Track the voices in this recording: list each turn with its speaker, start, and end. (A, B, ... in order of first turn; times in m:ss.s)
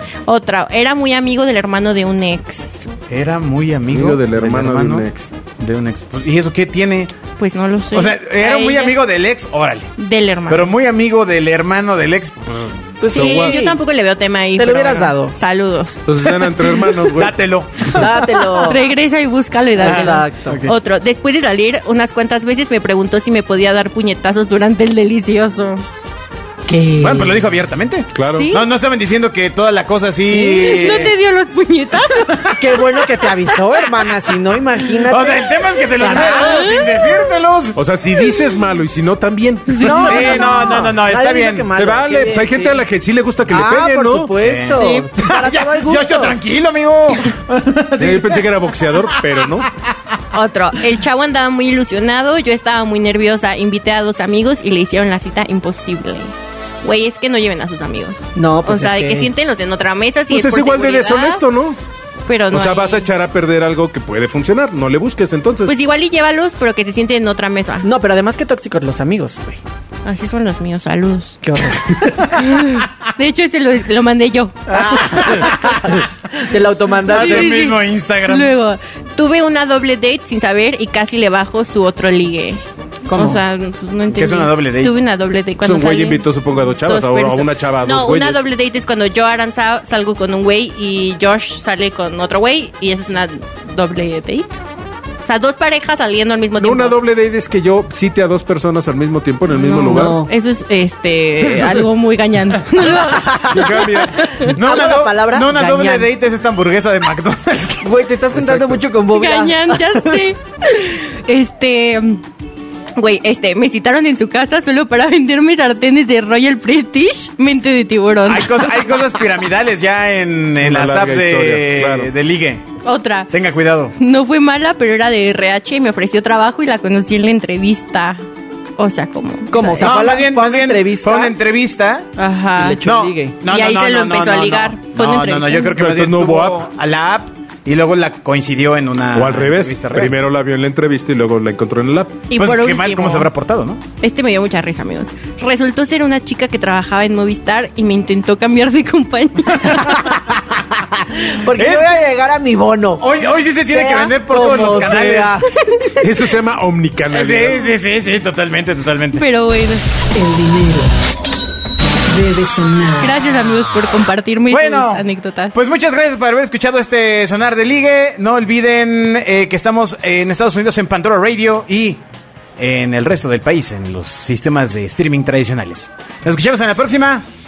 0:00.2-0:02.9 A
0:03.1-0:05.0 B
0:03.9-0:05.3 C
0:05.6-0:07.1 B
0:07.4-0:09.0 A
0:07.9-0:09.9 B
0:10.0-0:10.7 A
0:10.5-0:12.7 B
0:13.0-0:13.8 D
0:13.1-0:16.1 A
0:13.1-0:13.5 C
0:14.6-0:15.3 D
0:16.0-0:17.4 C
0:16.9-0:18.3 B
0:17.9-0:18.9 D
0:18.3-0:25.8 A
0:19.8-0:20.6 D
0:19.8-0:20.7 B
0:26.6-0:27.5 D
0:27.0-0:31.1 B
0:28.1-0:28.5 C
0:28.2-0:28.6 A
0:30.3-0:31.0 D
0:30.4-0:32.6 A
0:32.3-0:32.6 B
0:32.6-0:36.8 D
0:35.0-0:37.8 B
0:36.0-0:37.0 A
0:37.7-0:40.0 C
0:39.7-0:42.8 D
0:39.8-0:40.9 A
0:39.9-0:41.7 B
0:41.7-0:44.3 C
0:43.5-0:46.4 D
0:44.4-0:49.7 B
0:44.7-0:45.1 A
0:48.0-0:49.6 C
0:50.3-1:01.4 A
0:58.4-0:59.3 D
1:00.3-1:01.8 C
1:02.2-1:03.1 A
1:02.5-1:05.7 C
1:05.6-1:07.9 A
1:07.8-1:09.6 D
1:10.0-1:11.4 A
1:11.4-1:12.1 D
1:12.3-1:15.6 A
1:14.7-1:16.1 B
1:16.4-1:17.6 D
1:17.1-1:18.5 B
1:17.1-1:26.3 A
1:23.0-1:23.4 D
1:24.1-1:24.9 B
1:25.6-1:28.4 C
1:26.8-1:34.6 A
1:35.2-1:37.0 A
1:36.6-1:40.2 C
1:39.5-1:44.5 A
1:39.7-1:40.3 D
1:43.0-1:43.8 B
1:43.5-1:44.4 C
1:44.4-1:47.9 B
1:44.4-1:46.1 D
1:47.8-1:50.2 D
1:48.3-1:48.8 C
1:49.1-1:52.2 A
1:53.0-1:59.0 A
1:58.3-2:02.6 B
2:00.6-2:02.1 C
2:02.8-2:03.3 A
2:03.3-2:03.9 B
2:04.0-2:08.2 A
2:08.8-2:10.0 A
2:09.5-2:11.4 D
2:09.8-2:12.1 B
2:12.2-2:12.8 A
2:12.6-2:13.3 D
2:12.8-2:20.1 B
2:13.4-2:15.8 A
2:15.8-2:16.6 C
2:19.1-2:22.2 C
2:22.3-2:23.3 A
2:22.4-2:23.8 B
2:24.0-2:30.2 A
2:29.7-2:30.4 B
2:31.2-2:36.1 D
2:31.5-2:31.9 B
2:33.0-2:35.4 B
2:36.0-2:37.7 C
2:37.1-2:39.2 B
2:39.1-2:39.9 A
2:40.1-2:40.9 E
2:42.1-2:43.2 E
2:43.0-2:45.6 A
2:44.5-2:52.0 B
2:52.6-2:57.2 B